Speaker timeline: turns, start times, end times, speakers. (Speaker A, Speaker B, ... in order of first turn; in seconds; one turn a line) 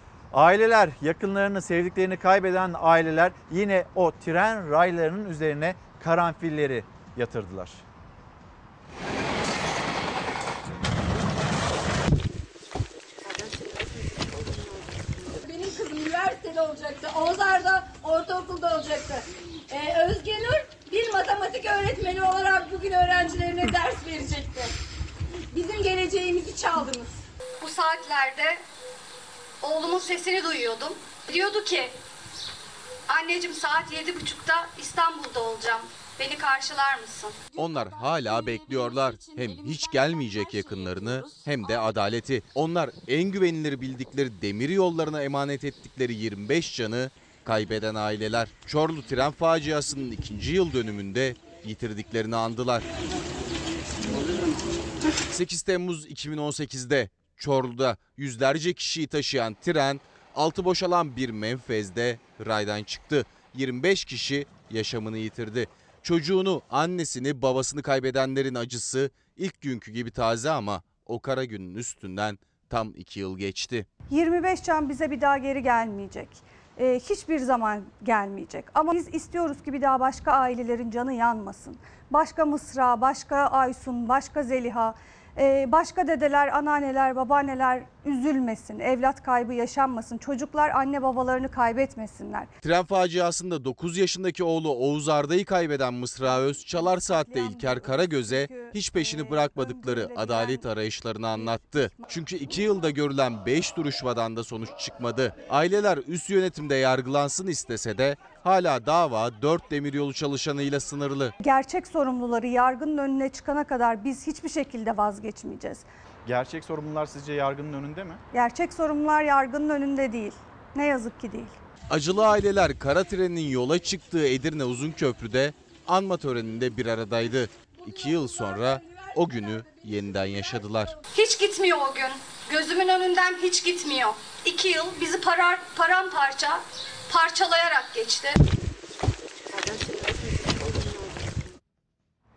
Speaker A: 0.3-7.8
Speaker B: 15.3-24.7
Speaker B: 25.5-27.1
Speaker C: 27.6-28.6
Speaker C: 29.6-31.9
Speaker C: 33.1-37.4
Speaker D: 37.5-52.9
Speaker D: 55.3-73.9
Speaker E: 74.1-92.5
Speaker D: 92.6-111.3
Speaker E: 96.7-100.7
Speaker E: 101.3-102.0
Speaker E: 111.4-115.8
Speaker A: 116.2-118.2
Speaker E: 118.3-121.5
Speaker D: 121.9-130.9
Speaker C: 131.1-138.4